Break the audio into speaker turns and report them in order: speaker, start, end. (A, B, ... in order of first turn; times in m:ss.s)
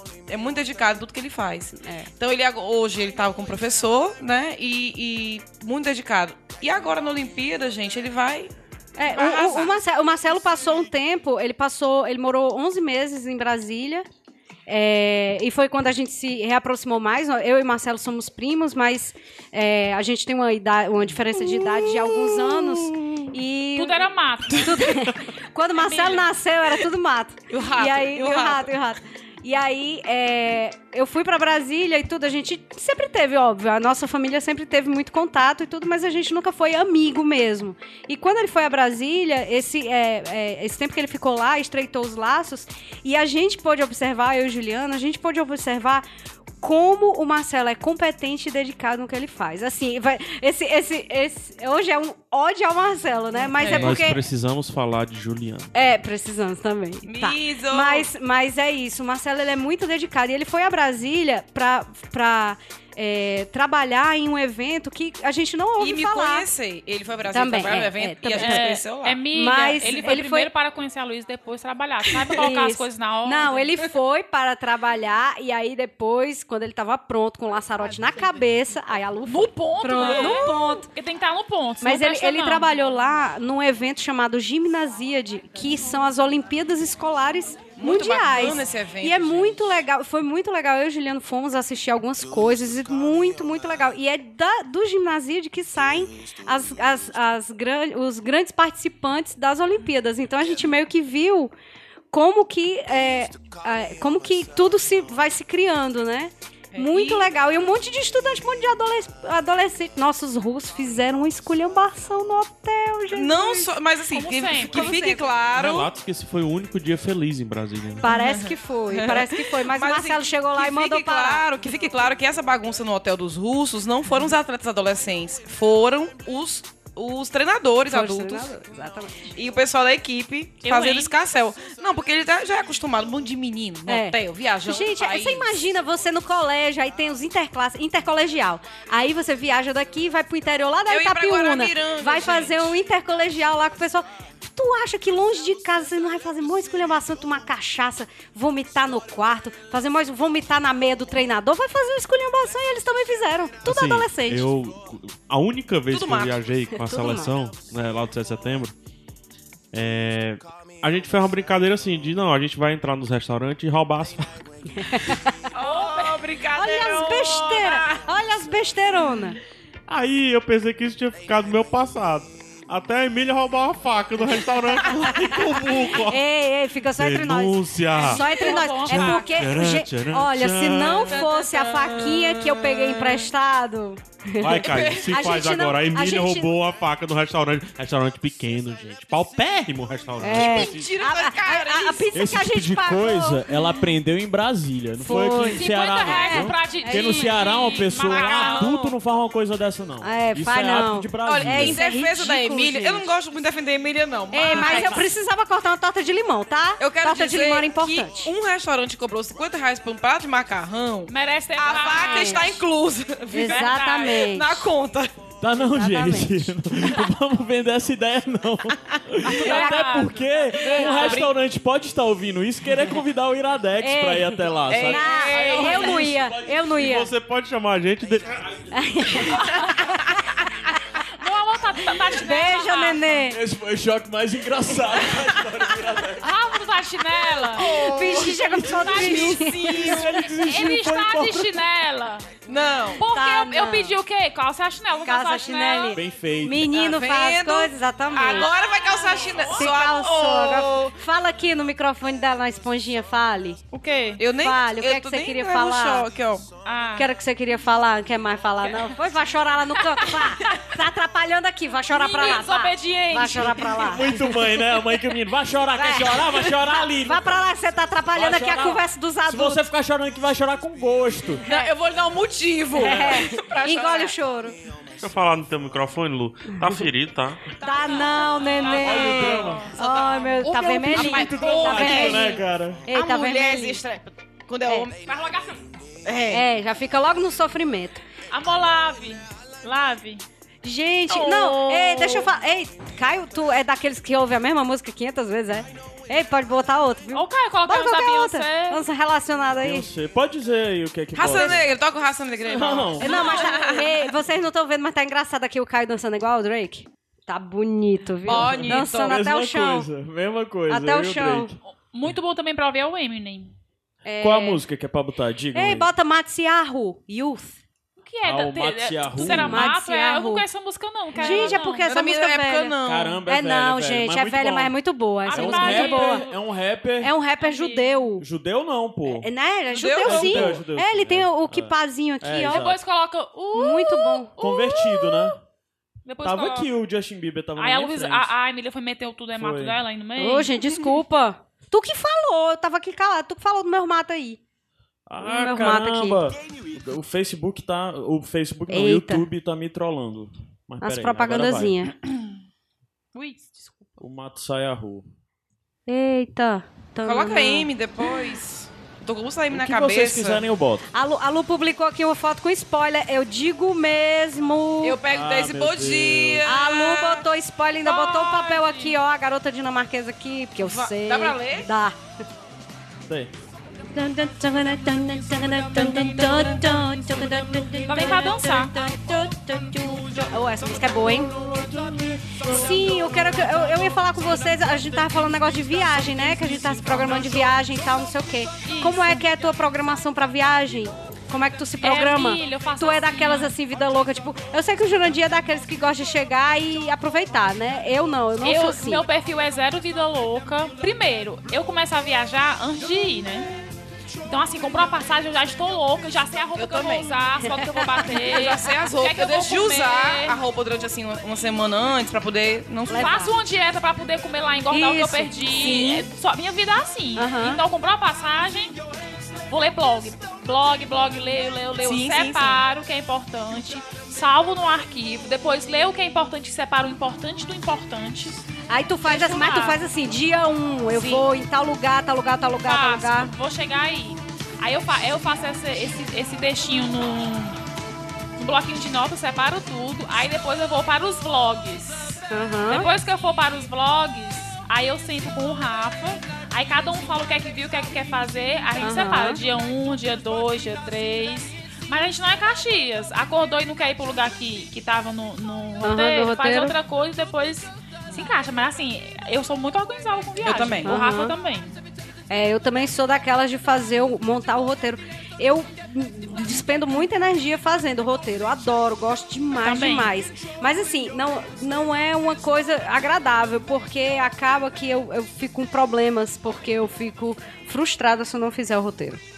0:00.3-0:08.5 A
0:09.0-0:14.0 B
0:09.1-0:09.7 A
0:14.7-0:24.0 B
0:22.6-0:23.0 A
0:23.8-0:24.9 C
0:24.6-0:46.0 B
0:25.8-0:26.3 C
0:27.5-0:28.7 A
0:46.6-0:54.2 B
0:53.6-0:54.0 A
0:53.6-0:55.7 D
0:55.7-1:06.4 B
0:57.0-0:58.1 A
1:05.8-1:09.2 A
1:07.3-1:08.6 B
1:08.4-1:13.7 C
1:09.3-1:10.5 B
1:12.4-1:20.8 B
1:19.2-1:22.7 C
1:20.0-1:20.5 A
1:21.8-1:41.5 B
1:27.8-1:29.6 A
1:42.1-1:53.7 B
1:46.7-1:47.3 A
1:53.1-1:55.9 A
1:54.1-1:54.9 C
1:54.7-1:55.2 B
1:55.5-1:58.1 D
1:58.0-2:01.4 B
1:58.1-2:08.5 A
2:07.9-2:09.2 B
2:09.3-2:15.6 A
2:10.6-2:11.1 C
2:13.9-2:34.4 B
2:20.9-2:22.7 A
2:33.6-2:38.7 D
2:35.9-2:36.4 A
2:36.8-2:37.3 B
2:39.7-2:44.4 D
2:45.5-2:48.0 A
2:46.6-2:49.4 B
2:49.9-2:56.2 D
2:56.1-3:06.5 B
2:56.9-2:58.2 D
2:58.0-2:59.4 C
2:58.8-3:01.2 D
3:01.2-3:03.1 A
3:04.4-3:10.9 D
3:04.7-3:05.2 A
3:10.2-3:13.5 B
3:10.3-3:12.1 A
3:12.1-3:21.8 E
3:15.0-3:17.4 B
3:15.5-3:18.7 C
3:18.1-3:19.0 A
3:20.0-3:23.1 B
3:21.2-3:25.0 A
3:24.3-3:28.3 B
3:26.8-3:35.1 A
3:31.1-3:32.6 C
3:31.9-3:32.4 B
3:33.3-3:34.7 B
3:33.3-3:34.1 C
3:35.4-3:46.6 E
3:35.6-3:36.4 B
3:39.2-3:40.2 C
3:39.4-3:39.8 B
3:40.6-3:41.2 B
3:40.8-3:41.3 A
3:43.8-3:47.1 B
3:44.7-3:46.0 A
3:46.8-3:48.7 D
3:48.7-3:49.7 B
3:51.2-3:53.2 C
3:52.1-3:53.4 B
3:53.3-3:56.2 E
3:56.2-3:57.6 C
3:57.5-4:00.0 A
3:57.6-4:00.2 B
3:58.2-4:01.6 E
3:58.7-3:59.4 C
4:00.3-4:02.3 C
4:02.5-4:03.0 A
4:03.0-4:06.0 C
4:03.0-4:04.0 B
4:05.0-4:08.5 B
4:05.9-4:06.7 E
4:06.7-4:10.9 A
4:08.4-4:09.7 C
4:09.5-4:13.6 B
4:13.7-4:14.2 C
4:14.2-4:16.4 A
4:14.4-4:16.0 B
4:16.6-4:17.1 C
4:17.0-4:24.4 B
4:21.9-4:23.7 C
4:23.6-4:27.4 E
4:25.8-4:29.6 B
4:28.1-4:31.4 E
4:31.4-4:34.1 A
4:32.7-4:34.5 B
4:35.0-4:37.5 D
4:37.6-4:43.8 B
4:37.6-4:39.8 C
4:38.8-4:39.7 E
4:39.8-4:42.4 A
4:40.8-4:42.8 E
4:42.9-4:45.0 A
4:45.0-4:45.6 C
4:46.0-4:46.4 A
4:46.3-4:48.0 B
4:48.3-4:50.2 C
4:50.6-4:59.9 B
4:51.1-4:52.3 A
4:57.1-4:58.8 C
4:59.6-5:01.6 E
5:01.1-5:04.0 A
5:02.5-5:03.3 E
5:03.0-5:09.9 B
5:08.2-5:09.2 A
5:08.3-5:11.6 E
5:10.7-5:11.5 B
5:11.6-5:13.5 C
5:14.0-5:14.6 B
5:14.2-5:15.9 E
5:15.5-5:17.6 B
5:18.0-5:21.9 C
5:18.2-5:19.7 E
5:19.2-5:20.4 B
5:21.1-5:22.8 B
5:21.9-5:23.2 A
5:22.8-5:24.7 E
5:23.3-5:26.2 B
5:25.2-5:26.4 C
5:25.3-5:27.1 E
5:27.0-5:28.2 B
5:27.4-5:28.0 C
5:28.2-5:29.3 E
5:29.1-5:32.6 B
5:29.7-5:30.5 A
5:30.0-5:32.8 E
5:32.5-5:34.8 C
5:33.5-5:34.3 B
5:34.4-5:35.4 E
5:36.0-5:36.7 C
5:36.2-5:38.3 E
5:37.6-5:40.5 C
5:39.3-5:39.8 E
5:40.2-5:44.4 B
5:45.1-5:51.8 E
5:45.2-5:46.2 B
5:48.7-5:49.2 B
5:50.8-5:51.9 B
5:53.1-5:54.0 C
5:54.0-5:55.0 E
5:55.9-5:57.7 B
5:57.0-6:00.4 A
5:59.5-6:00.9 E
6:00.9-6:05.0 B
6:04.8-6:07.2 A
6:05.1-6:06.5 E
6:06.4-6:12.0 B
6:07.8-6:09.0 C
6:10.6-6:11.7 A
6:13.1-6:13.3 E
6:13.9-6:21.3 B
6:17.8-6:18.7 C
6:21.3-6:23.5 E
6:22.4-6:39.0 B
6:28.6-6:29.2 C
6:31.8-6:33.5 C
6:38.4-6:43.5 C
6:44.2-6:50.4 C
6:46.6-6:47.1 A
6:47.8-6:48.0 B
6:48.2-6:53.2 A
6:52.9-6:53.3 B
6:53.0-6:58.8 C
6:54.7-6:56.0 B
6:57.2-6:57.6 B
6:59.5-7:08.4 C
7:01.8-7:02.6 A
7:08.7-7:13.3 B
7:09.0-7:09.8 C
7:10.9-7:11.3 C
7:12.6-7:17.6 C
7:18.4-7:41.8 C
7:22.3-7:22.9 B
7:28.8-7:29.4 B
7:35.8-7:36.8 B
7:40.4-7:40.9 A
7:40.8-7:41.3 B
7:42.3-7:59.2 B
7:49.6-7:50.1 C